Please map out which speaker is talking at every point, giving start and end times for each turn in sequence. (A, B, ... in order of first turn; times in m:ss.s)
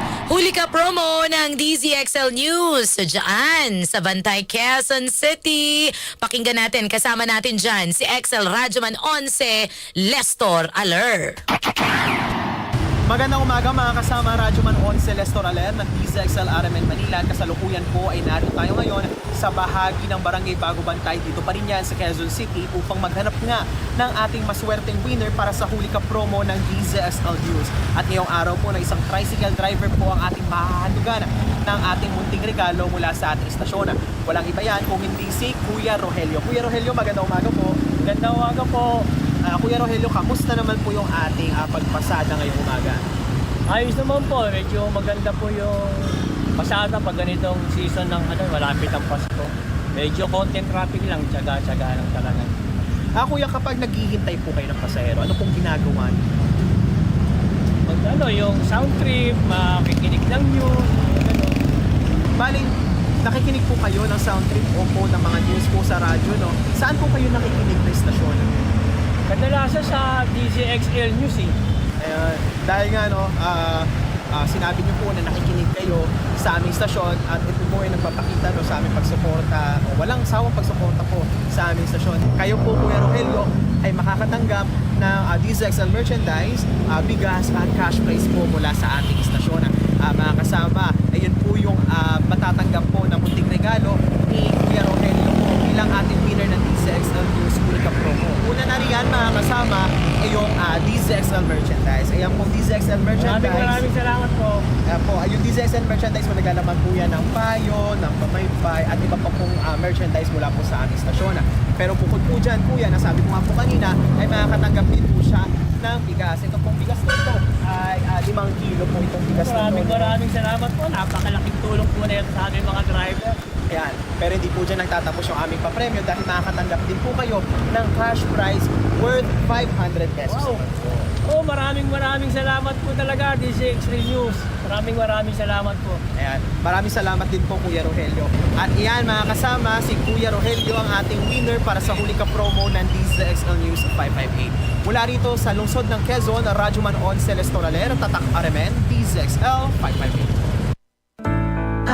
0:00.3-0:11.4 A
0:13.1-0:37.8 B
0:38.0-0:39.1 C
0:39.4-0:43.0 B
0:43.7-0:52.5 C
0:53.2-0:56.2 B
0:57.9-1:01.6 C
1:02.4-1:02.7 B
1:03.2-1:08.5 B
1:09.3-1:11.6 C
1:12.0-1:43.8 B
1:43.2-1:44.7 C
1:44.9-2:00.2 B
1:59.4-2:03.4 C
2:03.7-2:11.1 B
2:10.3-2:10.6 C
2:11.2-2:16.0 C
2:16.2-2:30.4 B